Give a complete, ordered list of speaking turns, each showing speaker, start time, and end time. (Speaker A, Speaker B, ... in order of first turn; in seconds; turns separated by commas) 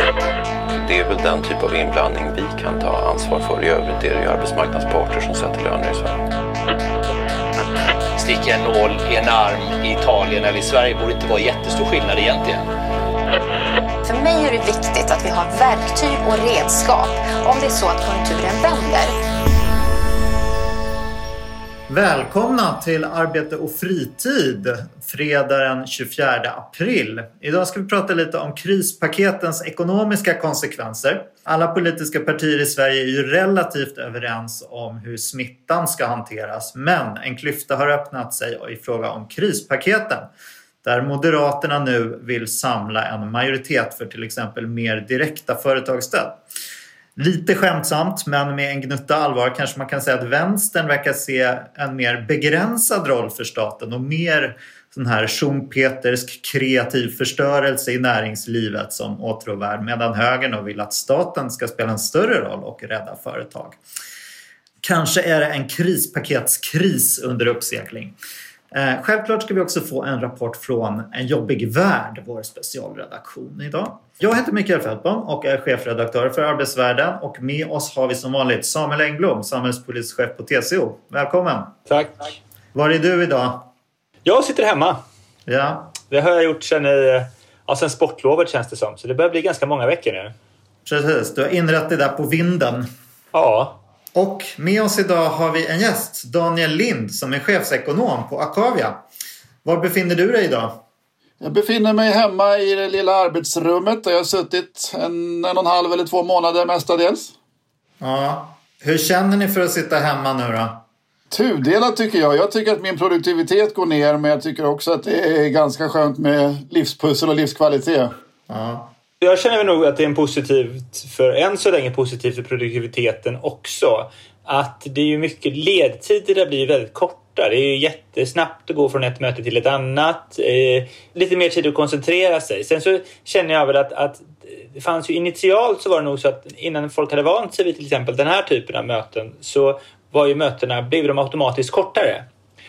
Speaker A: 0.8-6.2, Speaker B: 8.2-12.6, Speaker C: 14.1-19.1, Speaker D: 21.9-40.3, Speaker D: 40.8-46.4, Speaker D: 47.2-63.8, Speaker D: 64.8-68.2, Speaker D: 68.7-81.8, Speaker E: 81.9-82.3, Speaker D: 82.7-83.7, Speaker E: 84.2-85.0, Speaker D: 85.5-85.9, Speaker E: 86.1-90.3, Speaker D: 90.9-92.9, Speaker E: 93.3-93.8, Speaker D: 94.2-99.0, Speaker D: 99.7-100.8, Speaker F: 101.4-107.3, Speaker D: 108.0-110.8, Speaker F: 111.3-118.1, Speaker D: 118.5-118.9, Speaker E: 119.2-142.3